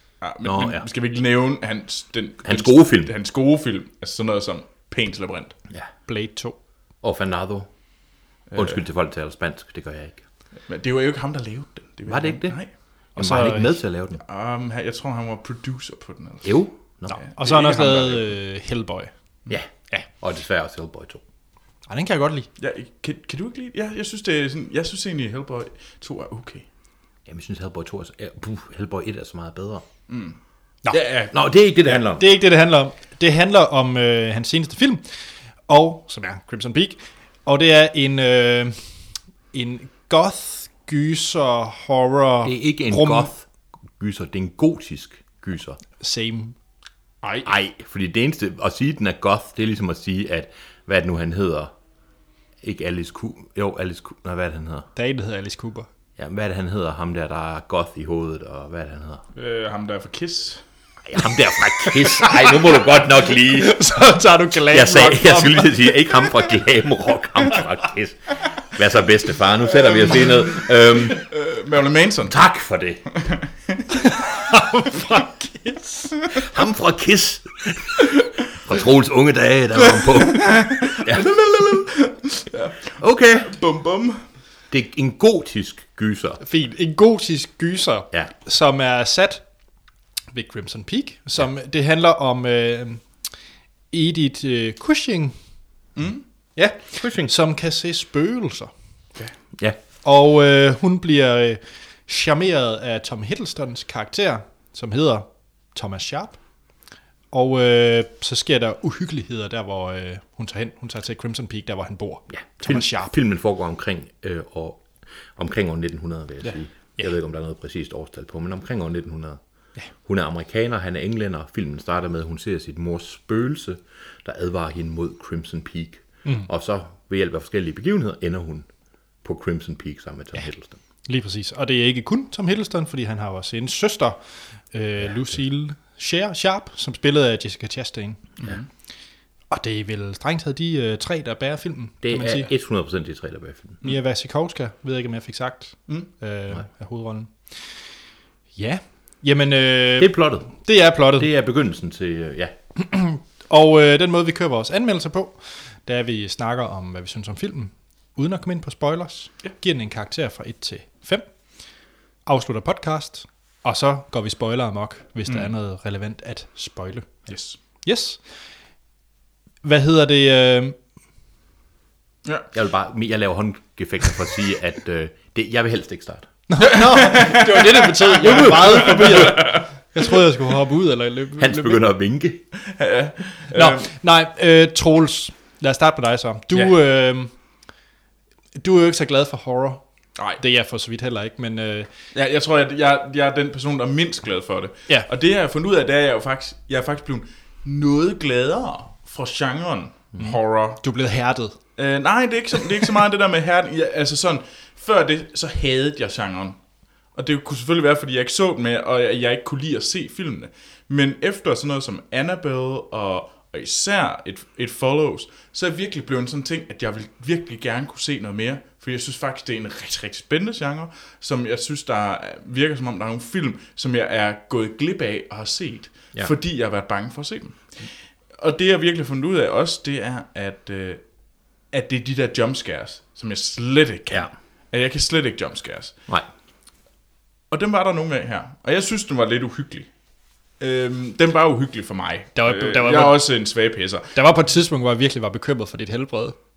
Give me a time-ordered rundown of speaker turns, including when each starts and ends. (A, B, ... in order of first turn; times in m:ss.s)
0:00.2-0:05.5 A
0:00.4-0:00.9 B
0:02.4-0:03.1 B
0:06.1-0:06.6 C
0:07.0-0:07.7 B
0:08.5-0:08.8 A
0:08.6-0:10.2 B
0:10.7-0:12.7 A
0:12.1-0:12.6 B
0:13.2-0:13.8 C
0:13.2-0:14.2 B
0:14.2-0:16.7 A
0:16.4-0:17.2 B
0:17.1-0:19.1 C
0:17.2-0:18.3 A
0:19.5-0:21.2 B
0:21.9-0:22.5 C
0:22.6-0:26.6 A
0:27.3-0:29.8 B
0:30.1-0:30.4 A
0:30.9-0:31.3 A
0:31.3-0:32.3 B
0:31.8-0:35.0 C
0:35.7-0:38.8 C
0:39.5-0:43.3 C
0:42.4-0:43.4 B
0:44.0-0:45.8 B
0:46.0-0:46.5 C
0:47.4-0:51.7 B
0:52.6-0:54.9 B
0:54.9-0:55.9 C
0:56.2-0:59.2 B
0:59.3-1:00.6 A
1:01.0-1:03.8 B
1:01.8-1:02.5 C
1:03.4-1:05.7 C
1:04.7-1:11.2 B
1:11.0-1:12.4 A
1:12.2-1:13.0 B
1:13.2-1:13.8 A
1:14.0-1:16.1 C
1:16.3-1:21.3 B
1:19.9-1:24.2 A
1:23.0-1:23.5 B
1:24.7-1:26.4 B
1:26.4-1:29.4 C
1:30.3-1:33.1 C
1:33.9-1:35.3 C
1:36.0-1:36.2 A
1:36.6-1:38.7 C
1:37.0-1:37.3 B
1:40.0-1:46.4 C
1:47.3-1:53.1 C
1:52.3-1:59.4 B
1:56.4-1:57.1 C
2:00.0-2:08.7 B
2:09.2-2:10.8 B
2:11.0-2:14.2 C
2:14.7-2:18.3 C
2:18.4-2:18.7 A
2:19.5-2:22.5 C
2:22.0-2:23.8 B
2:23.8-2:27.7 C
2:28.6-2:31.3 C
2:30.0-2:30.6 B
2:31.2-2:32.5 B
2:32.8-2:41.3 C
2:42.2-2:47.3 C
2:47.3-2:47.6 A
2:47.8-2:48.2 C
2:49.6-2:50.8 C
2:52.5-2:56.3 B
2:56.5-3:01.8 C
2:56.7-2:59.6 A
2:58.2-2:59.4 B
3:01.4-3:02.4 B
3:02.6-3:03.9 A
3:03.5-3:07.3 C
3:08.6-3:09.8 C
3:10.4-3:11.9 C
3:12.1-3:20.8 A
3:20.2-3:21.6 C
3:21.8-3:26.6 A
3:27.1-3:51.0 A
3:51.7-3:55.9 A
3:57.5-3:59.9 A
4:00.6-4:04.2 A
4:02.4-4:03.2 C
4:04.1-4:06.4 C